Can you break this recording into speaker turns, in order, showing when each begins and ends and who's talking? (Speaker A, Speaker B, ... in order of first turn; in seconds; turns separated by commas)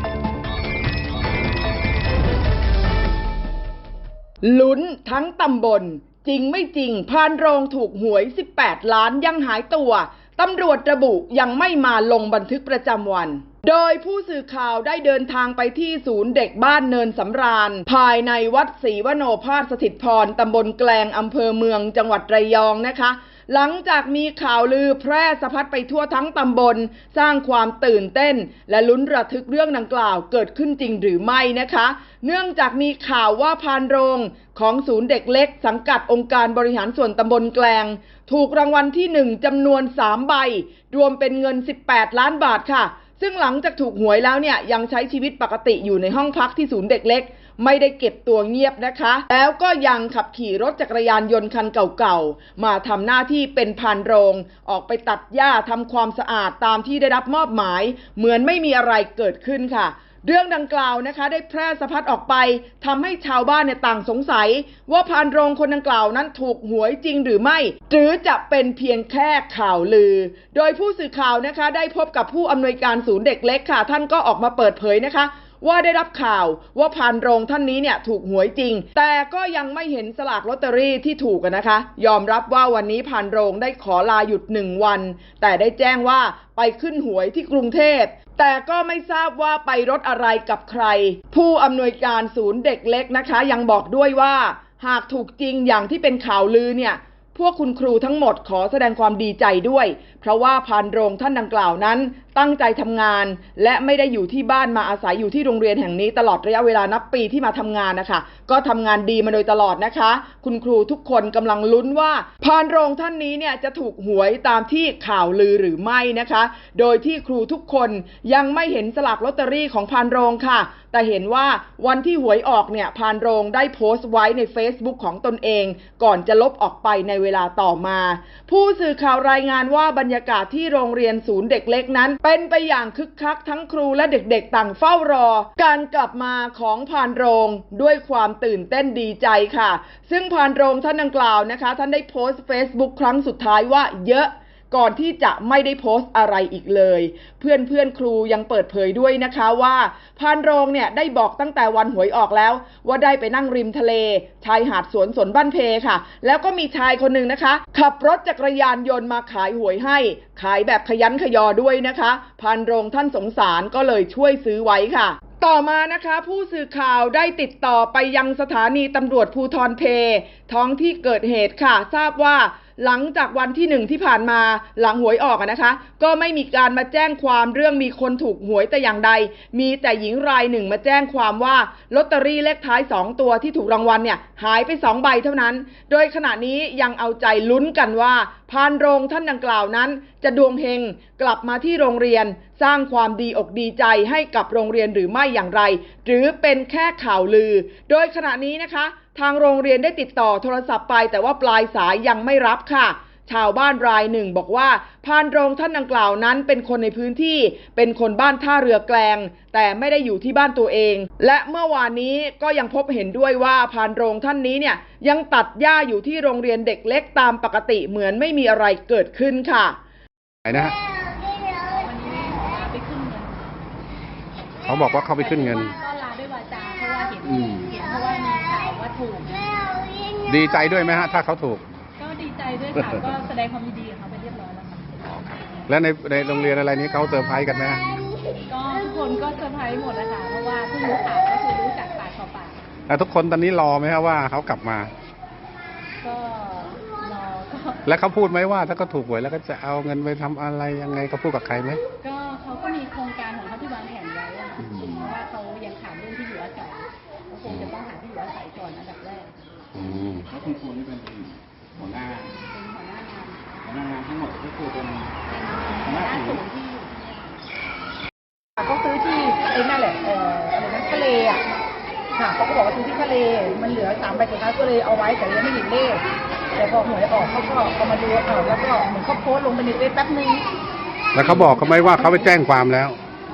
Speaker A: 4.4-219.8, Speaker B: 220.4-220.8, Speaker C: 221.6-223.4, Speaker B: 224.7-225.8, Speaker C: 225.2-229.7, Speaker B: 227.3-227.7, Speaker B: 230.3-231.6, Speaker C: 232.0-235.7, Speaker B: 235.7-237.8, Speaker C: 238.5-242.6, Speaker B: 242.9-244.9, Speaker C: 246.0-247.8, Speaker B: 247.9-251.8, Speaker C: 252.0-259.4, Speaker B: 254.8-255.1, Speaker B: 259.7-260.3, Speaker D: 260.2-262.4, Speaker C: 262.4-263.6, Speaker D: 263.6-265.2, Speaker C: 265.3-267.5, Speaker D: 265.9-266.4, Speaker E: 268.6-271.4, Speaker E: 272.2-276.0, Speaker E: 276.6-280.5, Speaker B: 281.1-283.0, Speaker E: 281.2-282.1